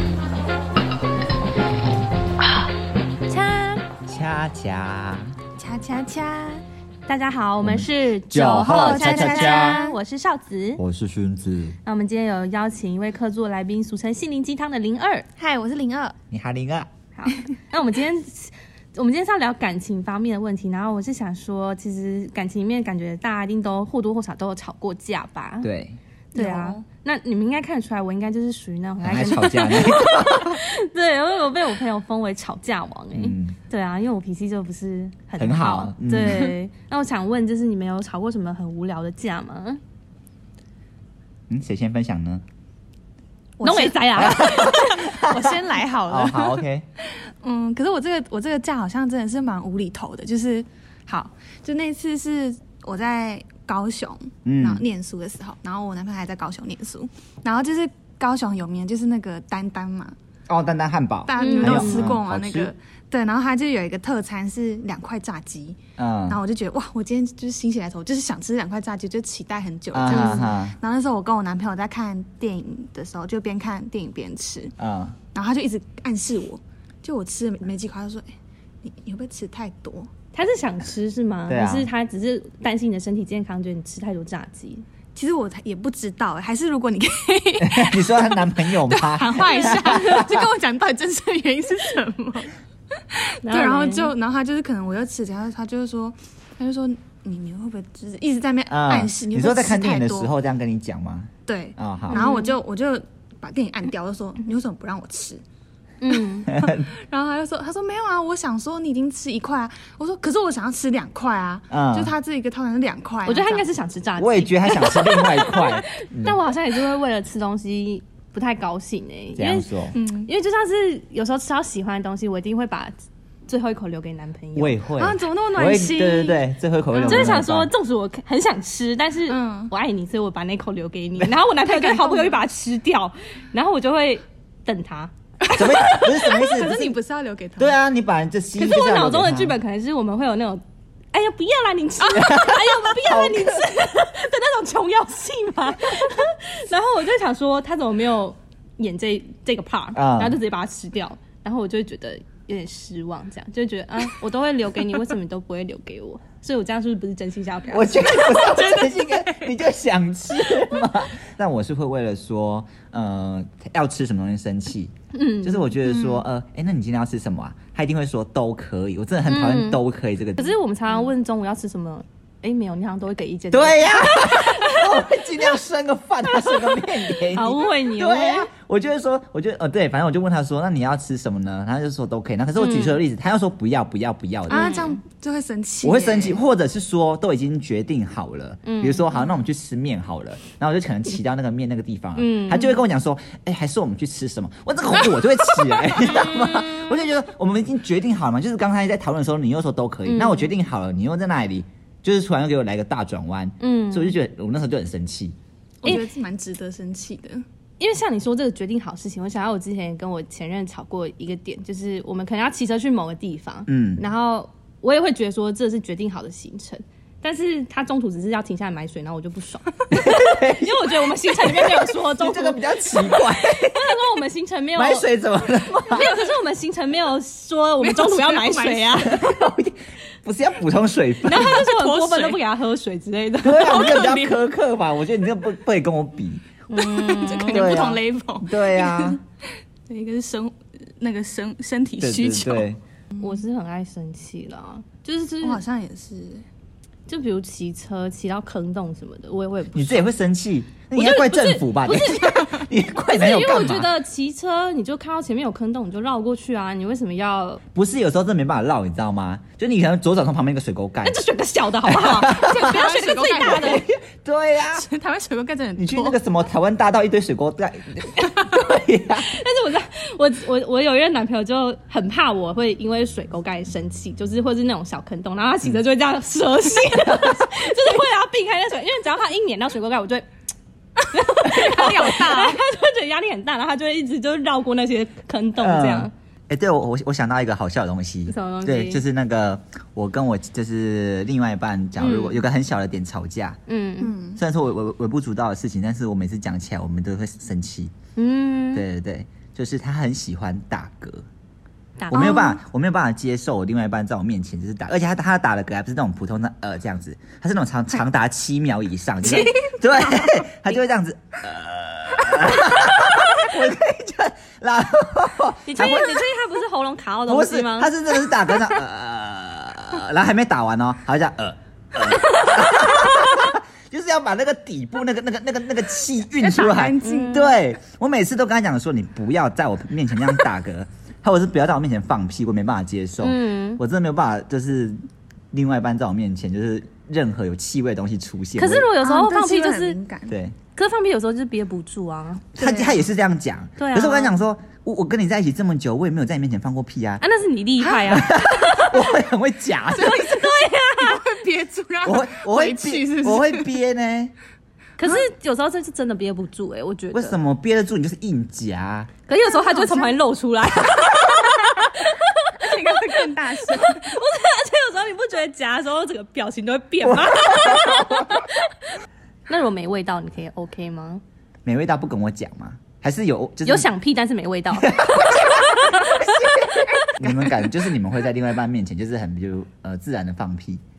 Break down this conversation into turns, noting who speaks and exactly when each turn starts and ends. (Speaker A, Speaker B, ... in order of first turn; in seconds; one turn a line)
Speaker A: 3.3-3.9
Speaker B: 4.1-5.4
Speaker C: 5.6-6.6
Speaker A: 7.1-10.8
Speaker B: 7.6-9.8
Speaker C: 8.6-10.0
Speaker B: 10.8-11.8
Speaker A: 11.8-15.3
Speaker C: 15.4-16.2
Speaker B: 16.3-16.9
Speaker A: 17.2-25.7
Speaker B: 25.6-26.0
Speaker A: 26.3-39.8
Speaker C: 26.4-26.8
Speaker B: 29.0-30.6
Speaker B: 33.1-33.6
Speaker B: 35.4-36.5
Speaker B: 41.5-42.4
Speaker C: 43.6-46.6
Speaker A: 43.6-45.0
Speaker B: 44.2-46.9
Speaker C: 47.4-60.1
Speaker B: 54.5-54.8
Speaker B: 60.5-62.7
Speaker C: 61.3-74.8
Speaker A: 61.4-62.1
Speaker B: 66.0-66.4
Speaker B: 69.9-70.8
Speaker A: 70.1-70.5
Speaker B: 74.8-75.2
Speaker C: 75.3-78.3
Speaker C: 78.8-80.1
Speaker A: 80.3-84.8
Speaker B: 81.5-81.9
Speaker C: 85.2-100.3
Speaker B: 87.6-90.5
Speaker A: 89.5-90.0
Speaker A: 93.4-94.1
Speaker B: 98.7-102.3
Speaker C: 101.5-105.4
Speaker A: 102.1-102.5
Speaker A: 106.0-106.5
Speaker C: 106.5-113.7
Speaker B: 106.5-106.9
Speaker B: 111.7-112.1
Speaker A: 113.3-122.9
Speaker B: 114.2-116.4
Speaker B: 119.4-120.0
Speaker C: 120.0-120.3
Speaker A: 123.5-124.8
Speaker B: 124.6-127.7
Speaker C: 125.0-127.5
Speaker A: 127.0-136.1
Speaker C: 129.3-129.7
Speaker C: 131.6-132.4
Speaker B: 135.5-137.0
Speaker C: 135.5-137.8
Speaker B: 137.6-139.6
Speaker A: 138.6-140.6
Speaker A: 141.1-158.5
Speaker B: 142.2-143.7
Speaker B: 149.9-150.4
Speaker B: 157.7-170.6
Speaker C: 158.1-159.5
Speaker A: 165.1-166.1
Speaker C: 165.9-166.1
Speaker A: 169.3-169.8
Speaker A: 170.4-175.0
Speaker B: 173.5-184.7
Speaker A: 176.3-178.5
Speaker A: 182.6-183.0
Speaker C: 184.5-186.4
Speaker A: 184.5-185.0
Speaker B: 185.8-205.4
Speaker A: 188.7-189.2
Speaker A: 192.2-192.8
Speaker C: 195.5-195.8
Speaker A: 200.1-200.5
Speaker A: 203.6-204.2
Speaker C: 205.8-207.4
Speaker A: 207.8-229.2
Speaker B: 213.7-214.0
Speaker B: 219.9-224.0
Speaker B: 224.8-226.1
Speaker C: 227.8-229.2
Speaker B: 229.0-231.6
Speaker A: 231.2-234.2
Speaker C: 231.3-232.4
Speaker B: 233.4-236.4
Speaker C: 233.7-234.3
Speaker A: 236.7-237.8
Speaker C: 236.8-239.2
Speaker B: 237.5-239.2
Speaker C: 239.9-243.2
Speaker B: 242.0-242.8
Speaker A: 243.2-245.6
Speaker C: 245.4-246.4
Speaker A: 247.1-250.1
Speaker B: 249.7-253.9
Speaker A: 250.9-257.6
Speaker B: 257.7-261.2
Speaker A: 261.0-263.8
Speaker B: 261.9-262.8
Speaker C: 262.4-263.8
Speaker B: 263.4-264.9
Speaker C: 264.7-266.2
Speaker B: 265.8-269.3
Speaker A: 269.2-280.3
Speaker B: 276.9-277.5
Speaker A: 281.1-286.1
Speaker C: 281.3-282.6
Speaker B: 281.6-282.1
Speaker B: 285.6-293.6
Speaker A: 288.3-289.0
Speaker A: 292.0-292.4
Speaker A: 293.7-294.1
Speaker C: 294.0-294.4
Speaker B: 294.4-297.9
Speaker A: 298.2-298.9
Speaker B: 298.7-301.2
Speaker A: 302.0-302.5
Speaker B: 302.1-316.3
Speaker C: 302.1-302.6
Speaker A: 309.2-310.3
Speaker A: 315.7-317.9
Speaker B: 317.3-338.9
Speaker C: 326.4-327.6
Speaker A: 327.0-327.5
Speaker A: 333.2-333.8
Speaker A: 338.6-340.0
Speaker C: 339.0-340.4
Speaker B: 340.3-340.6
Speaker A: 340.8-342.5
Speaker B: 342.6-347.2
Speaker C: 342.6-343.0
Speaker A: 343.8-344.4
Speaker A: 347.2-349.1
Speaker B: 348.1-350.4
Speaker C: 349.9-353.7
Speaker A: 350.0-351.2
Speaker B: 352.0-354.3
Speaker A: 355.0-357.4
Speaker B: 357.1-359.1
Speaker A: 359.3-368.9
Speaker C: 359.4-360.1
Speaker C: 362.6-364.1
Speaker B: 367.0-368.3
Speaker A: 369.5-371.2
Speaker B: 371.6-373.9
Speaker A: 373.6-377.4
Speaker B: 374.8-380.8